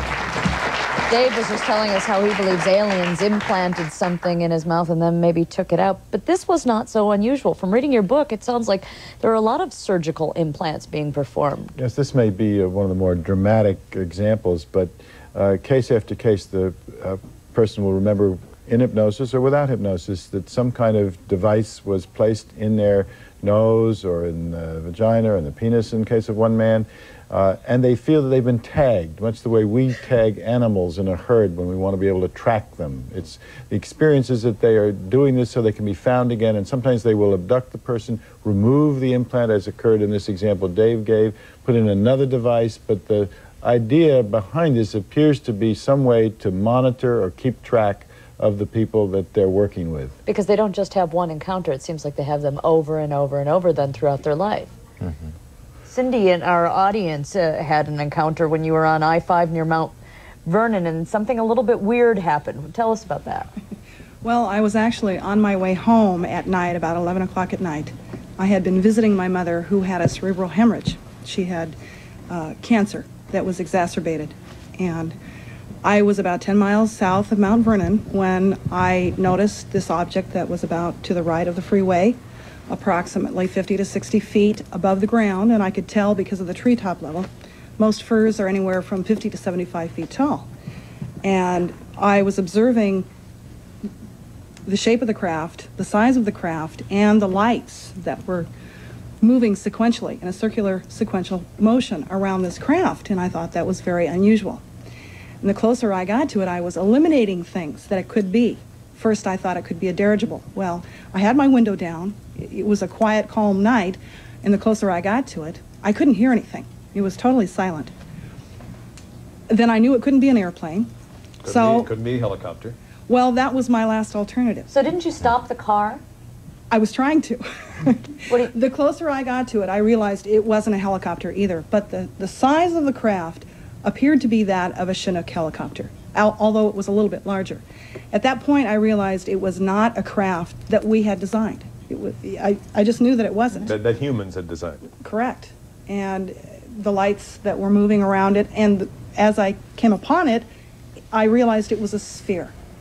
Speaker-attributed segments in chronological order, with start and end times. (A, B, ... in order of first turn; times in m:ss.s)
0:01.1-0:11.7 A
0:11.8-0:50.1 B
0:50.2-0:54.7 A
0:55.8-1:03.5 A
1:04.2-1:11.8 C
1:12.3-1:15.2 C
1:15.8-1:30.5 C
1:31.2-1:33.1 C
1:34.6-1:38.5 C
1:39.2-1:44.6 C
1:45.4-1:57.9 C
1:59.5-2:00.9 C
2:01.4-2:02.8 D
2:01.5-2:01.9 C
2:03.1-2:04.7 C
2:04.7-2:06.0 A
2:06.7-2:23.8 C
2:23.6-2:24.9 D
2:25.0-2:30.5 C
2:31.1-2:32.5 C